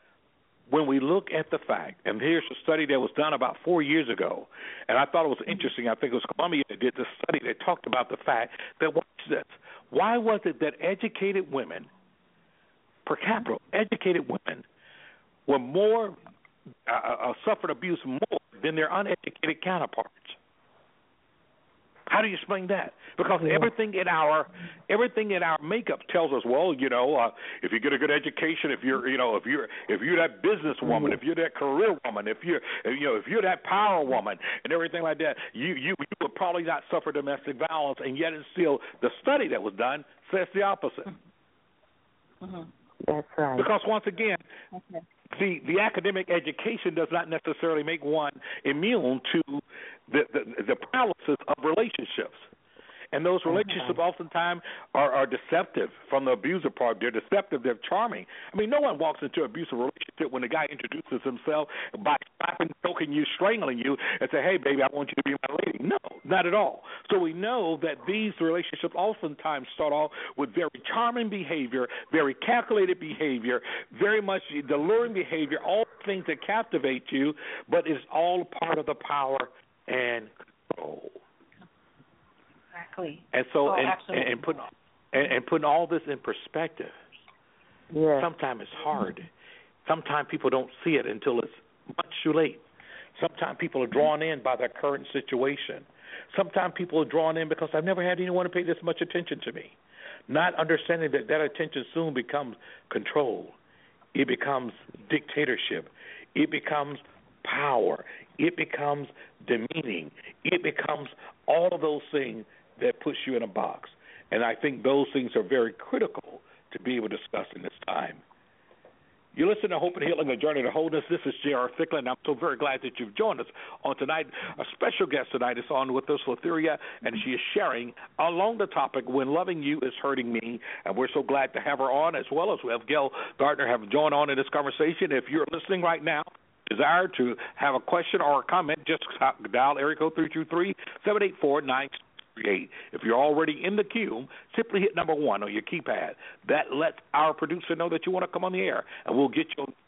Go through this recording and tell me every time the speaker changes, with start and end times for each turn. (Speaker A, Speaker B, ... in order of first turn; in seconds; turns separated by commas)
Speaker A: 0.7-11.9, Speaker A: 13.0-14.7, Speaker A: 15.4-16.2, Speaker A: 16.9-20.4, Speaker A: 22.1-41.1, Speaker B: 23.3-23.7, Speaker B: 30.8-31.2, Speaker C: 42.4-42.7, Speaker B: 43.1-43.7, Speaker A: 43.5-44.4, Speaker C: 44.7-45.0, Speaker A: 45.3-52.5, Speaker A: 53.1-81.2, Speaker B: 53.5-54.0, Speaker C: 82.7-84.6, Speaker A: 83.3-86.9, Speaker B: 87.9-88.3, Speaker A: 88.1-89.3, Speaker A: 89.8-92.6, Speaker A: 93.1-99.7, Speaker A: 100.3-103.5, Speaker A: 104.1-118.2, Speaker A: 119.3-149.7